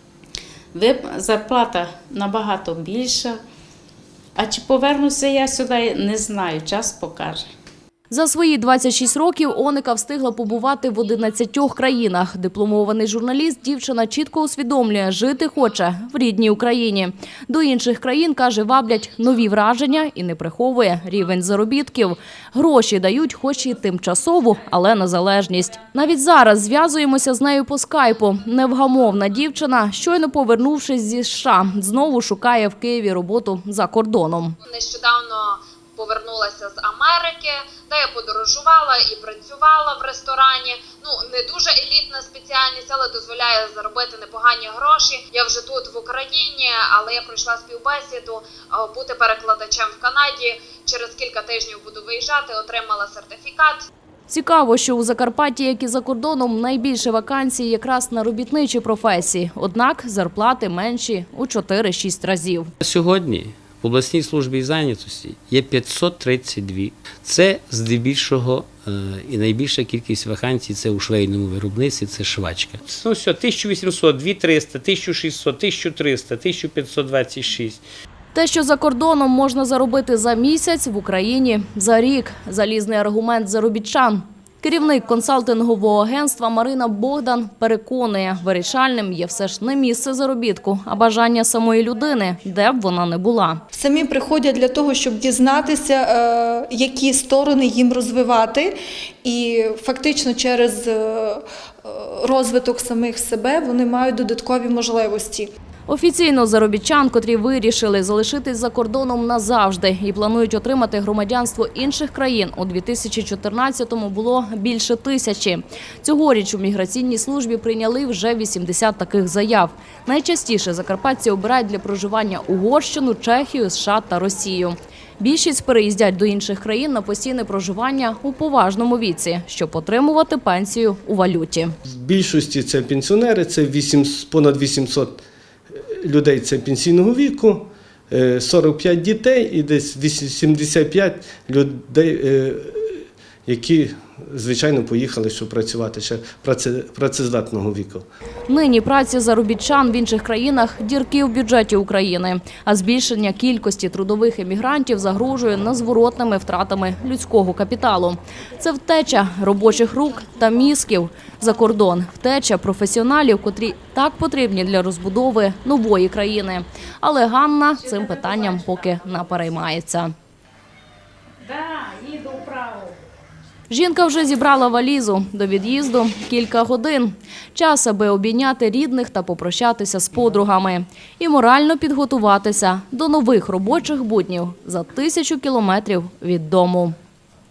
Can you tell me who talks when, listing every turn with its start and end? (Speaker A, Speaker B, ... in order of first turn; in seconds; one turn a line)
Speaker A: 0.7-3.4
Speaker A: 4.3-7.4
Speaker B: 8.1-34.5
Speaker C: 34.6-53.9
Speaker B: 54.3-62.7
Speaker D: 62.8-77.8
Speaker B: 78.3-93.6
Speaker E: 93.7-98.7
Speaker E: 99.2-105.5
Speaker B: 105.9-131.7
Speaker F: 131.8-135.2
Speaker F: 135.7-148.0
Speaker B: 148.5-170.1
Speaker A: 167.8-168.8
Speaker A: 171.4-173.0
Speaker B: 173.7-186.9